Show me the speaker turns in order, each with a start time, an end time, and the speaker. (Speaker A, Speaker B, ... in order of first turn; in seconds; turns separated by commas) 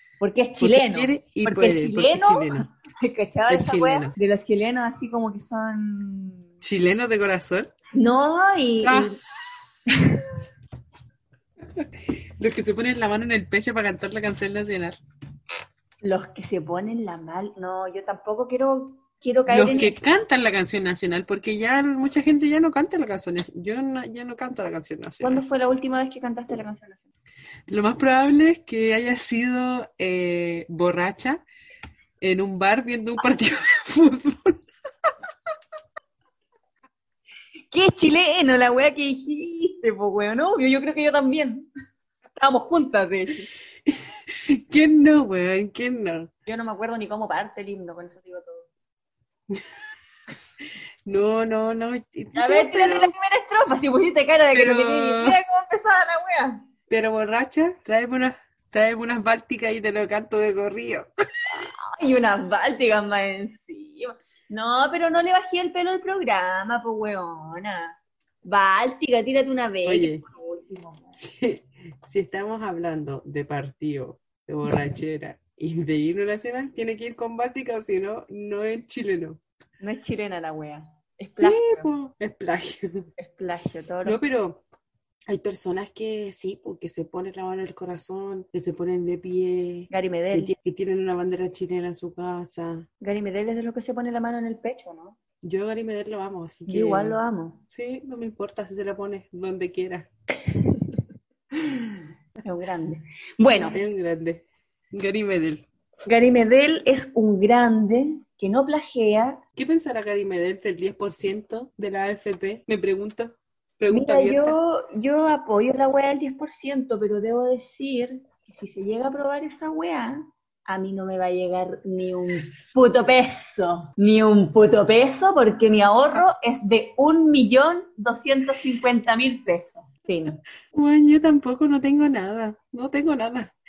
Speaker A: 0.2-6.5, Speaker B: 0.6-2.7, Speaker B: 3.5-4.1, Speaker B: 6.6-7.7, Speaker A: 7.9-9.2, Speaker B: 8.8-9.1, Speaker A: 9.9-10.2, Speaker B: 11.7-15.0, Speaker A: 16.0-20.0, Speaker B: 19.5-25.4, Speaker A: 25.2-27.1, Speaker B: 27.7-31.4, Speaker B: 32.2-34.6, Speaker A: 37.7-41.7, Speaker A: 42.4-43.5, Speaker B: 43.9-46.3, Speaker A: 46.5-48.7, Speaker B: 49.5-49.8, Speaker B: 51.1-53.1, Speaker A: 52.3-56.6, Speaker B: 54.5-55.4, Speaker B: 56.9-61.1, Speaker A: 61.5-71.2, Speaker B: 69.8-70.2, Speaker B: 71.2-79.4, Speaker A: 79.8-81.9, Speaker B: 81.3-83.1, Speaker A: 83.2-84.2, Speaker B: 84.0-84.6, Speaker B: 85.3-92.9, Speaker A: 89.9-90.5, Speaker A: 93.0-95.2, Speaker B: 95.4-97.2, Speaker A: 96.7-97.6, Speaker B: 97.7-100.1, Speaker A: 100.5-100.9, Speaker A: 101.5-103.8, Speaker B: 103.6-105.7, Speaker A: 106.0-109.4, Speaker B: 109.6-114.5, Speaker A: 113.9-130.4, Speaker B: 130.7-133.5